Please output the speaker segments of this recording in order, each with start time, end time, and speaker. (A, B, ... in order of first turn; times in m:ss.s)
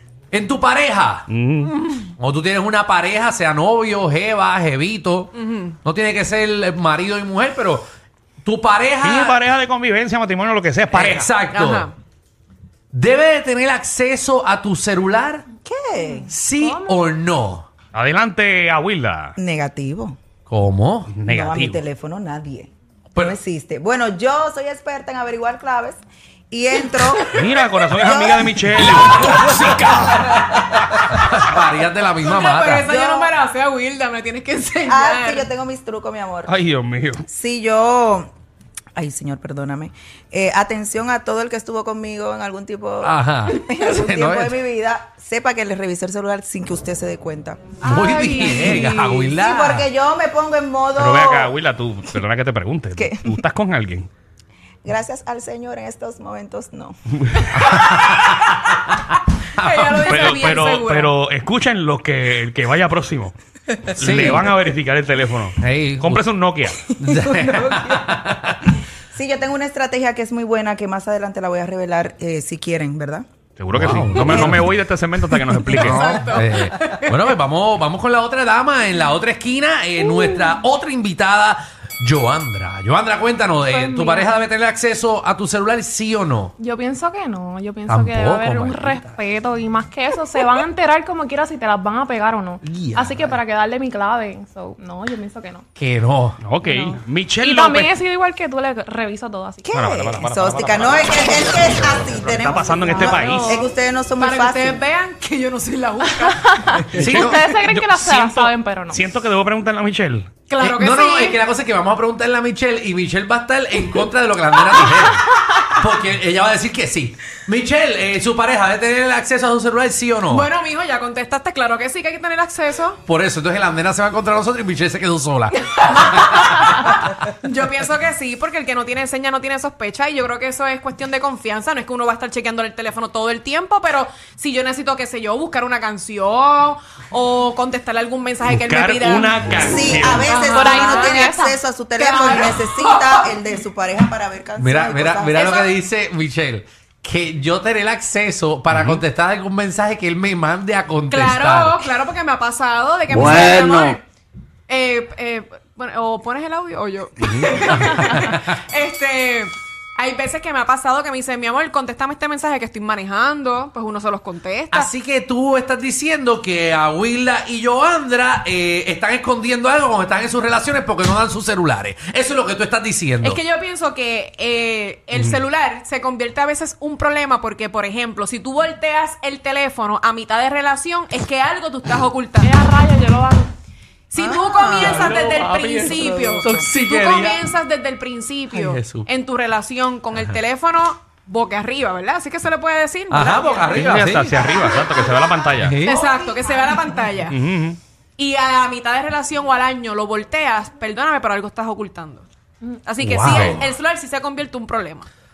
0:00.3-0:01.3 A
0:01.3-0:01.8 B
0:01.8-0:02.0 C
0:02.2-0:07.8 A
0:05.4-0:05.7 C
0:08.4-0:09.4 A
0:09.0-0:11.3 B
0:10.9-0:11.9 A
0:11.5-0:11.9 C
0:12.9-0:15.4 A
0:15.6-0:16.3 D
0:16.0-0:17.1 E
0:16.3-0:17.7 A
0:17.9-0:19.3 B
0:19.4-0:20.2 D
0:20.5-0:21.2 A
0:21.1-0:21.8 B
0:21.3-0:29.6 D
0:27.3-0:30.7 B
0:28.9-0:29.9 A
0:31.1-0:32.9 A
0:32.2-0:35.5 C
0:32.8-0:33.3 D
0:34.9-0:36.5 D
0:36.4-0:37.2 B
0:37.3-0:38.3 D
0:39.0-0:48.8 D
0:43.0-0:44.6 A
0:47.8-0:49.4 C
0:47.8-0:49.9 A
0:49.3-0:51.5 D
0:51.0-0:54.1 B
0:53.0-0:53.4 D
0:54.8-0:57.0 D
0:57.3-0:57.6 B
0:57.5-1:00.0 A
0:59.6-1:01.1 C
1:00.0-1:03.3 B
1:04.0-1:06.8 B
1:04.0-1:04.5 A
1:05.6-1:08.7 A
1:07.0-1:08.1 D
1:09.1-1:13.2 D
1:13.6-1:16.3 B
1:13.7-1:26.5 A
1:15.6-1:17.3 C
1:23.6-1:24.4 E
1:26.6-1:35.6 E
1:27.9-1:29.2 A
1:32.6-1:33.4 A
1:35.8-1:36.4 A
1:36.4-1:38.0 B
1:36.6-1:39.7 E
1:39.6-1:44.8 D
1:39.7-1:43.6 B
1:41.8-1:42.1 A
1:42.6-1:43.7 E
1:44.2-1:47.4 C
1:46.2-1:49.1 E
1:46.9-1:47.4 A
1:46.9-1:50.3 B
1:50.5-1:51.4 C
1:50.6-2:00.5 A
2:00.2-2:03.0 C
2:03.0-2:06.9 A
2:05.7-2:21.2 C
2:18.5-2:20.4 B
2:19.6-2:25.6 D
2:20.5-2:21.6 E
2:22.0-2:23.3 C
2:24.6-2:31.8 A
2:25.4-2:25.8 C
2:28.7-2:29.0 B
2:31.1-2:34.0 C
2:33.1-2:34.0 A
2:34.7-2:44.9 C
2:37.2-2:37.5 B
2:37.7-2:38.4 A
2:44.7-2:53.4 A
2:53.2-3:02.5 C
2:55.1-2:55.4 A
3:02.4-3:03.5 E
3:04.1-3:13.9 C
3:04.2-3:05.0 D
3:04.7-3:07.5 A
3:05.7-3:06.7 D
3:08.5-3:09.1 A
3:13.1-3:14.4 A
3:13.7-3:15.8 B
3:15.6-3:16.0 A
3:15.8-3:17.4 C
3:17.2-3:17.8 B
3:18.2-3:22.3 C
3:22.8-3:25.1 C
3:23.0-3:23.6 A
3:23.3-3:23.6 B